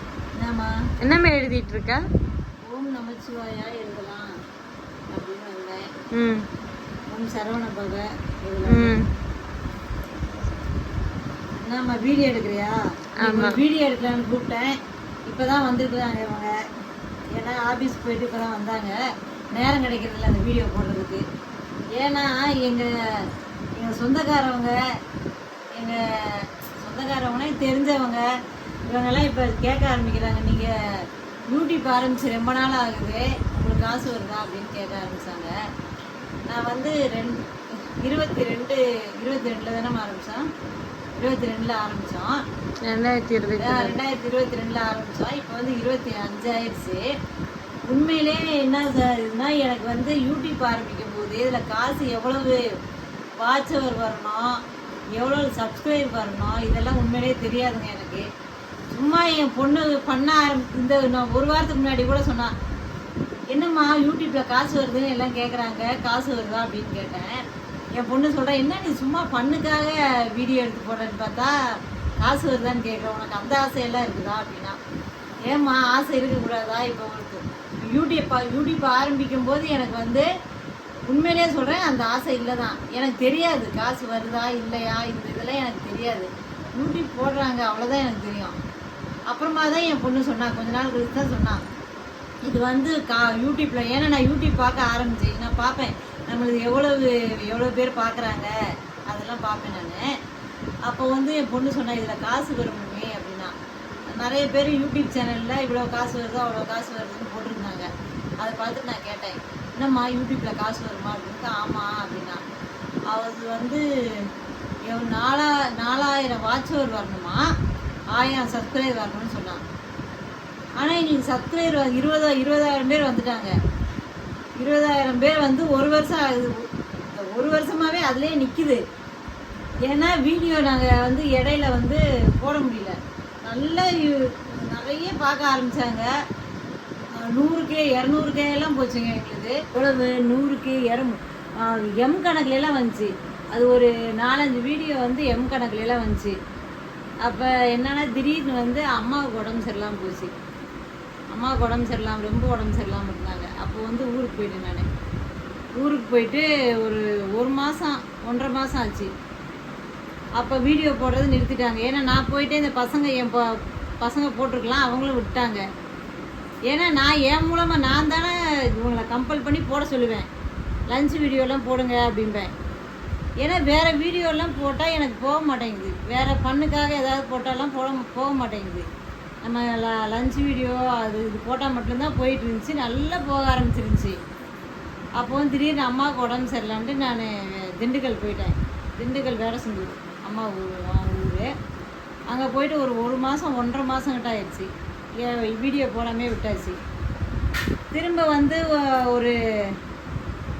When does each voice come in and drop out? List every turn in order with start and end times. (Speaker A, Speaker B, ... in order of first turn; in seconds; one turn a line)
Speaker A: 0.4-0.7
Speaker B: 1.0-2.0
Speaker A: 2.7-4.3
Speaker A: 5.1-5.9
Speaker B: 6.1-6.5
Speaker A: 7.1-9.0
Speaker B: 8.7-9.1
Speaker A: 11.6-14.8
Speaker B: 13.2-13.6
Speaker A: 15.3-16.5
Speaker A: 17.4-19.0
Speaker A: 19.5-21.2
Speaker A: 22.0-24.7
Speaker A: 25.8-28.2
Speaker A: 28.9-30.7
Speaker A: 31.5-35.5
Speaker A: 36.5-37.3
Speaker A: 38.0-40.5
Speaker A: 41.2-42.4
Speaker B: 42.8-44.0
Speaker A: 43.6-47.0
Speaker A: 47.9-52.6
Speaker A: 53.4-54.5
Speaker A: 55.1-58.2
Speaker A: 58.9-62.5
Speaker A: 63.5-67.4
Speaker A: 68.0-71.5
Speaker A: 72.2-74.8
Speaker A: 75.5-80.2
Speaker A: 81.1-88.5
Speaker A: 89.3-91.6
Speaker A: 92.4-98.5
Speaker A: 99.1-100.0
Speaker A: 100.8-103.5
Speaker A: 104.1-107.9
Speaker A: 108.4-112.4
Speaker A: 113.1-113.8
Speaker A: 114.9-117.4
Speaker A: 118.1-119.6
Speaker A: 120.8-123.5
Speaker A: 124.6-126.5
Speaker A: 127.1-128.8
Speaker A: 129.9-136.1
Speaker A: 137.2-146.3
Speaker A: 147.2-150.3
Speaker A: 151.3-154.8
Speaker A: 155.8-159.1
Speaker A: 160.4-163.4
Speaker A: 164.0-165.6
Speaker A: 166.7-170.3
Speaker A: 170.9-172.5
Speaker A: 173.4-178.8
Speaker A: 179.4-184.2
Speaker A: 185.2-191.5
Speaker A: 192.3-196.8
Speaker A: 197.9-199.3